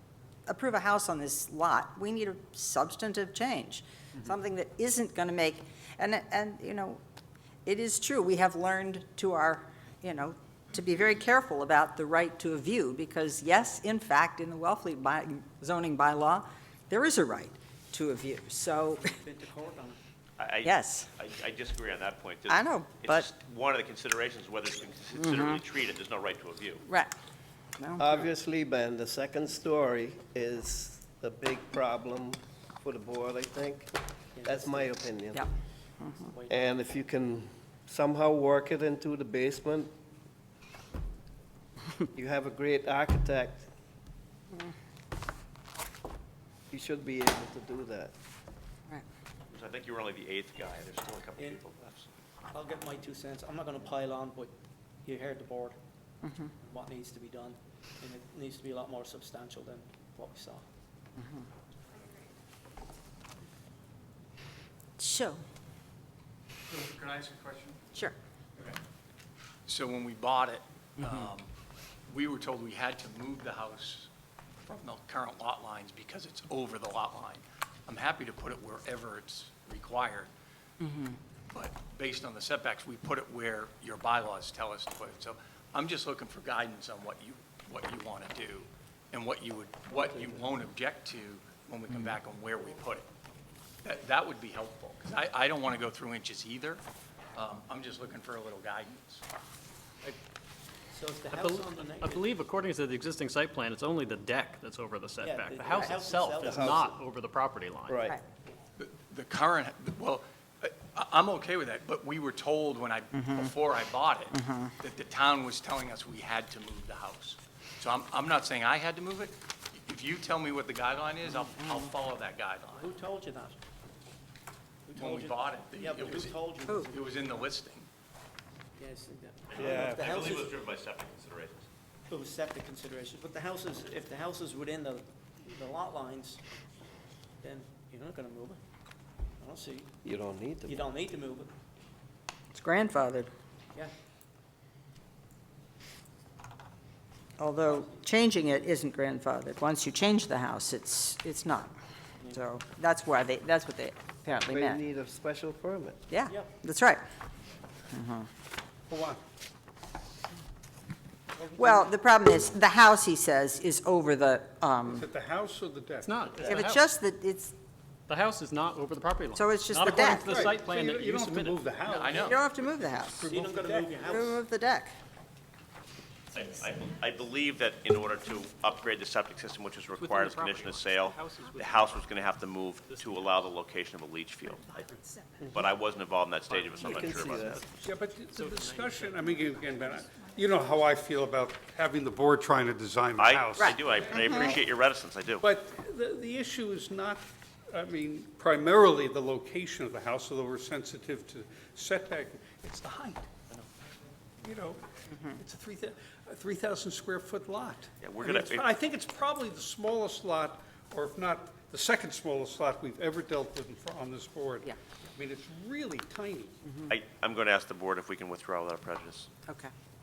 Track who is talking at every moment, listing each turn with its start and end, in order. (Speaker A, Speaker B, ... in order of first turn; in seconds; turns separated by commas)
Speaker A: 0.5-7.0, Speaker A: 7.7-19.1, Speaker B: 19.1-20.0, Speaker C: 20.4-26.8, Speaker A: 20.6-21.1, Speaker A: 22.5-23.3, Speaker A: 25.2-25.6, Speaker A: 26.9-27.1, Speaker A: 27.8-28.2, Speaker D: 28.0-33.9, Speaker B: 34.4-34.9, Speaker D: 34.4-35.5, Speaker B: 36.1-36.7, Speaker D: 36.5-39.9, Speaker D: 42.1-43.7, Speaker D: 46.7-48.1, Speaker C: 49.5-52.1, Speaker B: 52.5-54.5, Speaker B: 55.0-55.8, Speaker A: 56.2-56.5, Speaker B: 56.6-60.6, Speaker A: 61.2-61.4, Speaker A: 65.0-65.4, Speaker E: 66.7-67.8, Speaker E: 69.7-71.5, Speaker E: 72.1-74.1, Speaker E: 74.7-80.3, Speaker A: 80.8-81.2, Speaker E: 81.5-93.0, Speaker B: 89.9-90.5, Speaker E: 93.8-96.8, Speaker E: 97.3-99.2, Speaker B: 100.9-102.3, Speaker F: 101.3-108.0, Speaker B: 105.2-107.0, Speaker D: 106.4-106.8, Speaker D: 107.9-108.1, Speaker E: 108.8-122.9, Speaker A: 113.1-113.5, Speaker A: 114.3-114.7, Speaker B: 122.8-123.6, Speaker B: 124.9-127.0, Speaker E: 124.9-127.9, Speaker B: 128.8-130.6, Speaker C: 129.5-131.7, Speaker D: 129.5-130.3, Speaker B: 132.1-136.4, Speaker B: 137.4-138.6, Speaker B: 139.4-139.9, Speaker D: 140.0-140.7, Speaker B: 140.7-141.5, Speaker A: 142.5-143.3, Speaker A: 147.4-151.7, Speaker A: 152.2-154.8, Speaker D: 154.5-156.0, Speaker A: 156.1-157.0, Speaker A: 157.9-158.3, Speaker G: 158.9-159.2, Speaker B: 161.4-161.9, Speaker A: 161.6-165.1, Speaker G: 164.9-166.5, Speaker F: 166.0-166.8, Speaker A: 166.4-167.5, Speaker F: 168.1-171.7, Speaker A: 169.3-170.3, Speaker G: 169.8-172.4, Speaker E: 171.9-172.4, Speaker A: 172.2-173.3, Speaker G: 173.1-174.1, Speaker B: 173.3-174.4, Speaker A: 174.1-174.9, Speaker C: 176.3-184.6, Speaker F: 179.9-181.9, Speaker F: 182.9-183.3, Speaker C: 185.5-187.6, Speaker D: 186.8-187.7, Speaker F: 187.2-187.6, Speaker G: 187.8-193.8, Speaker F: 188.3-189.2, Speaker C: 193.2-195.4, Speaker A: 193.6-194.6, Speaker G: 195.4-203.3, Speaker G: 204.4-204.8, Speaker A: 205.1-205.4, Speaker G: 205.4-216.6, Speaker C: 208.0-208.7, Speaker A: 216.7-216.9, Speaker C: 216.9-219.3, Speaker A: 219.5-219.7